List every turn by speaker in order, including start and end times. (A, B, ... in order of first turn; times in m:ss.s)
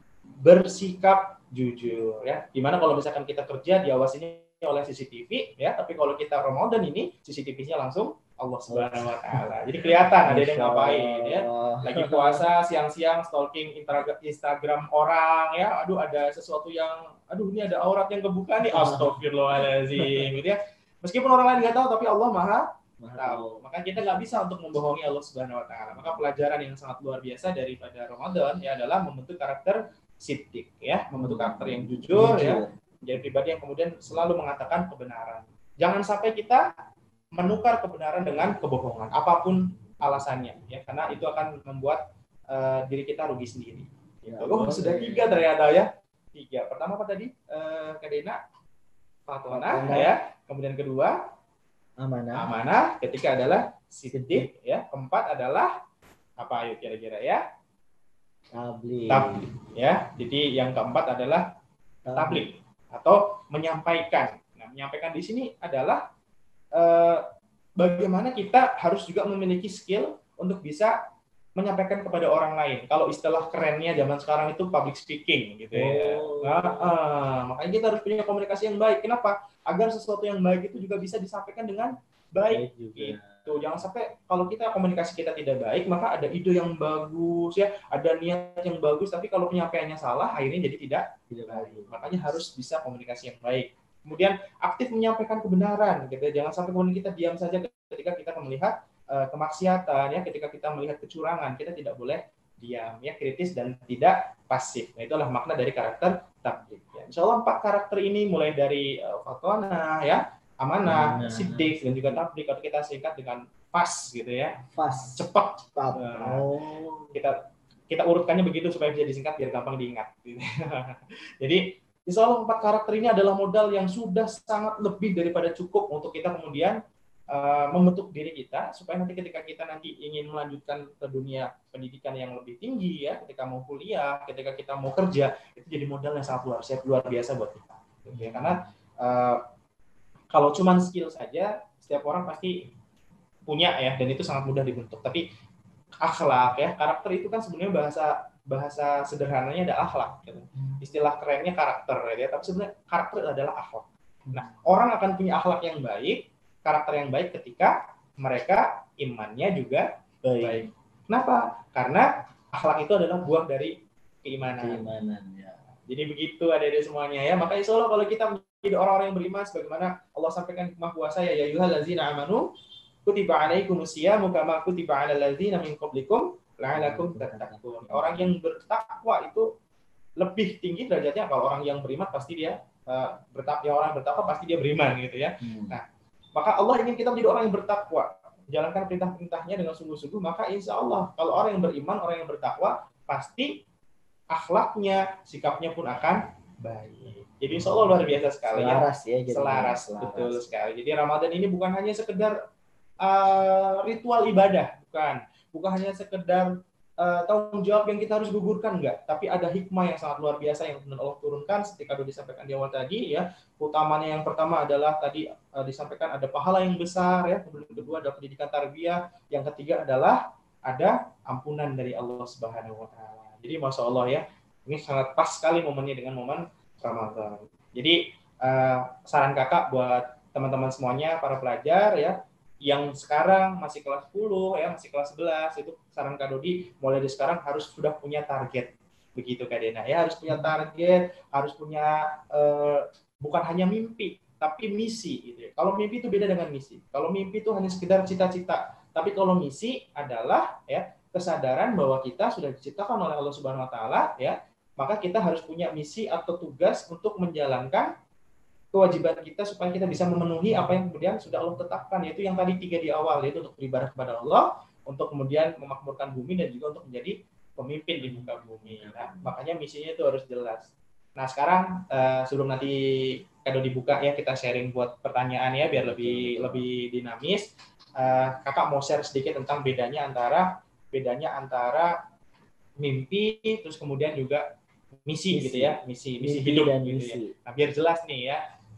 0:00.4-0:36.6 A
0:08.7-0:09.4 B
0:10.2-0:12.5 B
0:18.7-0:19.2 B
0:20.0-0:20.3 B
0:23.0-0:23.6 B
0:31.2-0:32.7 B
0:37.4-0:48.4 A
0:44.3-0:45.5 B
0:49.3-0:51.2 A
0:49.5-0:50.1 B
0:52.0-0:52.5 B
0:52.4-0:55.7 A
0:54.1-0:54.5 B
0:56.4-0:57.4 A
0:58.5-0:59.4 B
0:59.1-1:01.4 A
1:02.1-1:02.5 B
1:02.1-1:06.0 A
1:06.8-1:07.2 A
1:07.8-1:10.9 A
1:11.6-1:54.6 A
1:15.7-1:16.9 B
1:22.5-1:23.8 B
1:31.3-1:32.1 B
1:50.8-1:52.2 B
1:54.7-1:55.2 B
1:55.2-1:56.4 A
1:55.8-1:57.2 B
1:57.9-2:06.8 A
2:07.3-2:19.4 A
2:20.3-2:22.6 A
2:23.5-2:25.2 A
2:26.0-2:39.9 A
2:34.3-2:34.6 B
2:40.2-2:40.6 B
2:40.4-2:44.8 A
2:44.6-2:45.6 B
2:45.9-2:52.5 A
2:53.0-2:59.5 A
2:56.7-2:58.3 B
3:00.2-3:05.8 A
3:05.4-3:05.8 B
3:06.4-3:13.5 A
3:14.3-3:22.4 A
3:18.5-3:20.4 B
3:23.0-4:17.9 A
4:18.7-4:32.8 A
4:28.0-4:29.3 B
4:33.4-4:41.9 A
4:35.6-4:36.6 B
4:42.8-4:44.4 A
4:45.1-4:48.4 A
4:45.3-4:47.3 B